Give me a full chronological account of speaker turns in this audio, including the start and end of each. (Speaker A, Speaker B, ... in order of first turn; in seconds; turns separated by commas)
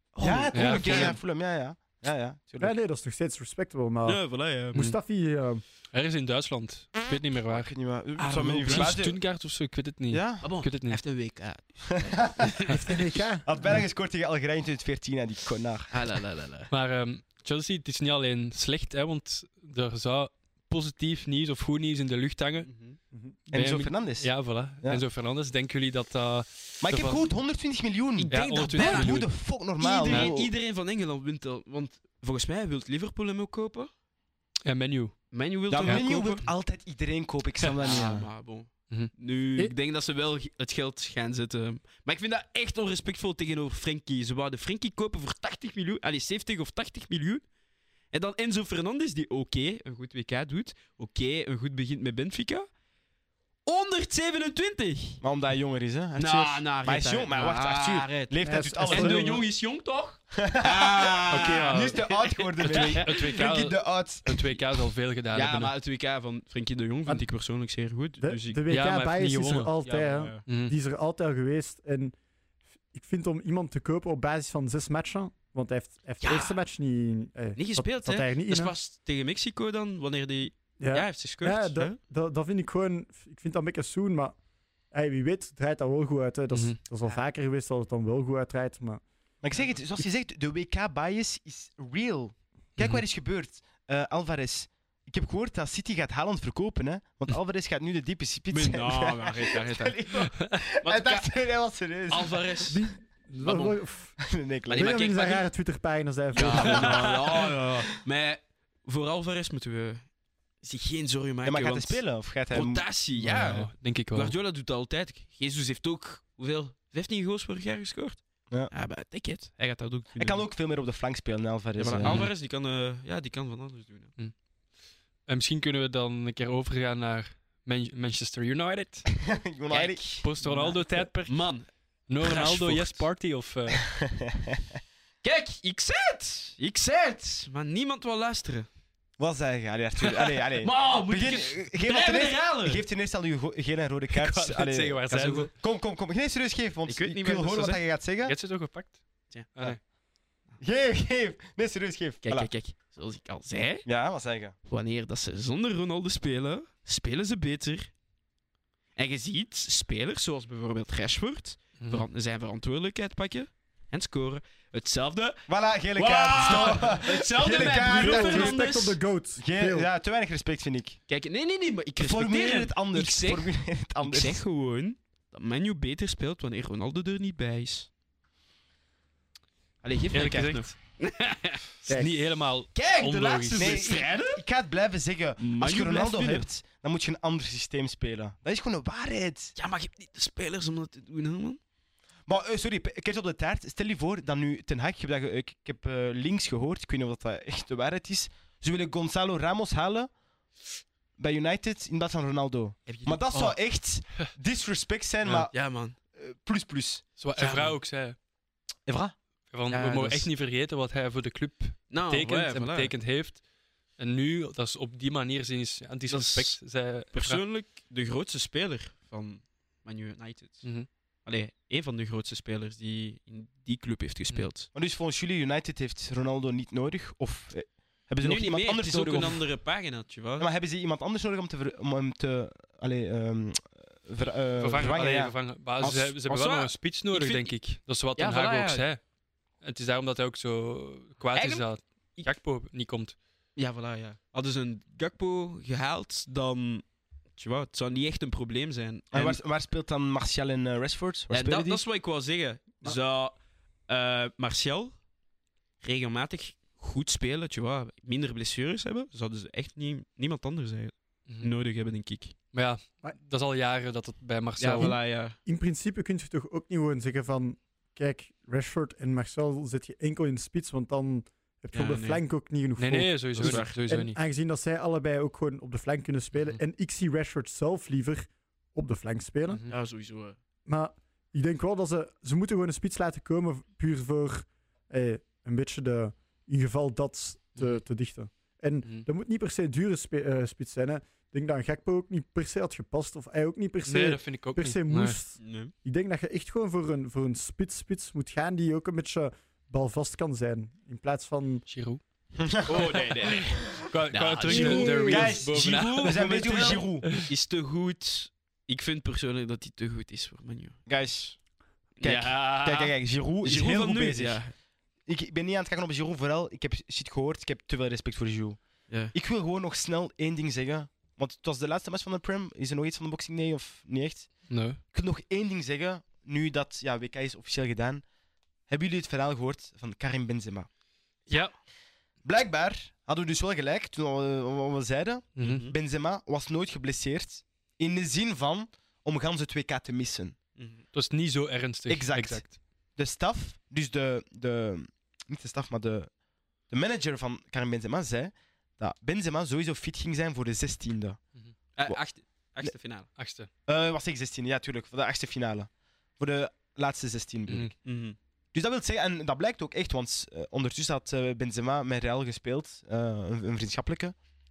Speaker A: 0.2-1.2, Speaker B: 0.2-2.7, Speaker C: 0.5-1.2, Speaker D: 2.6-5.6, Speaker A: 4.0-4.8, Speaker C: 5.9-7.7, Speaker B: 7.5-9.2, Speaker A: 8.2-8.9, Speaker C: 8.6-11.0, Speaker B: 10.1-10.5, Speaker A: 10.4-13.0, Speaker B: 12.1-12.5, Speaker D: 12.7-13.8, Speaker B: 13.4-16.0, Speaker A: 15.9-16.7, Speaker C: 16.7-22.7, Speaker A: 22.6-23.0, Speaker B: 23.5-25.0, Speaker C: 23.5-27.3, Speaker B: 26.8-30.5, Speaker A: 28.2-33.9, Speaker C: 28.3-29.3, Speaker C: 30.1-30.3, Speaker C: 34.6-35.2, Speaker A: 35.3-36.5, Speaker B: 35.7-38.3, Speaker A: 37.8-47.5, Speaker A: 48.1-52.7, Speaker A: 53.7-55.2, Speaker B: 55.2-59.4, Speaker A: 56.2-63.4, Speaker D: 58.5-59.4, Speaker B: 60.4-64.5, Speaker C: 61.3-62.0, Speaker C: 62.7-65.7, Speaker A: 65.3-68.6, Speaker D: 68.2-72.2, Speaker C: 68.7-69.7, Speaker A: 69.8-70.4, Speaker C: 70.5-70.7, Speaker D: 72.9-78.7, Speaker A: 76.2-76.6, Speaker A: 77.6-82.0, Speaker D: 80.8-84.4, Speaker D: 84.9-89.0, Speaker B: 89.4-102.7, Speaker C: 92.8-93.0, Speaker A: 98.5-100.0, Speaker A: 100.8-101.3, Speaker A: 102.1-102.8, Speaker D: 102.7-106.9, Speaker A: 103.5-103.7, Speaker B: 104.2-105.1, Speaker A: 104.7-105.5, Speaker A: 106.3-110.1, Speaker B: 106.5-107.9, Speaker A: 110.6-120.5, Speaker B: 111.5-112.8, Speaker C: 113.2-114.3, Speaker B: 120.1-122.3, Speaker A: 121.8-124.1, Speaker C: 122.0-122.3, Speaker C: 125.3-129.1, Speaker B: 129.2-130.2, Speaker A: 129.7-131.7, Speaker C: 130.2-131.4, Speaker C: 132.1-133.8, Speaker A: 132.2-133.0, Speaker B: 133.9-134.6, Speaker A: 135.2-138.7, Speaker B: 139.2-148.3, Speaker A: 140.6-142.8, Speaker C: 144.1-145.5, Speaker A: 145.1-145.5, Speaker A: 146.9-147.8, Speaker C: 148.2-149.0, Speaker C: 149.5-149.8, Speaker B: 150.6-152.5, Speaker A: 152.2-153.9, Speaker B: 153.8-154.6, Speaker A: 154.7-157.9, Speaker A: 159.0-169.0, Speaker C: 161.8-162.0, Speaker B: 165.5-168.6, Speaker D: 167.9-169.9, Speaker B: 169.4-171.0, Speaker A: 171.1-177.9, Speaker B: 172.0-174.4, Speaker A: 179.8-181.7, Speaker C: 180.1-180.8, Speaker C: 181.9-183.8, Speaker D: 181.9-182.1, Speaker A: 182.8-184.4, Speaker B: 183.5-189.6, Speaker A: 185.4-186.5, Speaker A: 189.6-191.6, Speaker B: 192.3-200.1, Speaker B: 201.2-205.5, Speaker A: 202.9-203.6, Speaker A: 205.2-206.0, Speaker B: 206.1-207.1, Speaker C: 207.2-208.2, Speaker A: 207.4-207.8, Speaker B: 208.9-209.2, Speaker C: 209.5-213.4, Speaker A: 209.7-210.3, Speaker A: 211.9-212.9, Speaker C: 214.0-217.4, Speaker A: 216.1-220.7, Speaker A: 221.3-224.7, Speaker B: 224.7-229.5, Speaker A: 228.2-230.5, Speaker B: 230.4-236.0, Speaker C: 234.6-239.0, Speaker A: 235.8-237.6, Speaker A: 238.2-238.9, Speaker C: 239.6-243.2, Speaker A: 241.3-242.3, Speaker A: 243.6-249.4, Speaker B: 249.1-251.8, Speaker A: 251.3-253.4, Speaker A: 253.9-255.0, Speaker A: 255.8-262.3, Speaker C: 262.5-265.0, Speaker A: 264.6-265.4, Speaker D: 264.8-279.6, Speaker A: 271.7-272.2, Speaker C: 272.8-274.2, Speaker A: 273.4-273.8, Speaker A: 279.7-280.4, Speaker D: 280.7-301.6, Speaker C: 293.9-295.2, Speaker A: 295.4-295.7, Speaker C: 301.7-302.0, Speaker B: 302.4-303.4, Speaker A: 302.7-310.9, Speaker C: 303.9-307.3, Speaker D: 304.5-305.3, Speaker B: 304.5-307.1, Speaker B: 310.9-311.4, Speaker B: 312.0-314.5, Speaker A: 312.0-314.5, Speaker B: 315.1-328.1, Speaker A: 318.9-319.1, Speaker C: 324.5-324.8, Speaker B: 328.7-330.7, Speaker C: 331.3-331.5, Speaker B: 332.2-340.4, Speaker C: 335.4-335.7, Speaker A: 335.4-335.7, Speaker A: 340.6-340.8, Speaker C: 340.9-342.5, Speaker B: 341.9-346.2, Speaker B: 346.7-351.2, Speaker A: 351.7-353.1, Speaker C: 353.2-353.5, Speaker B: 353.7-357.8, Speaker C: 357.5-357.7, Speaker A: 357.8-358.2, Speaker B: 358.5-364.1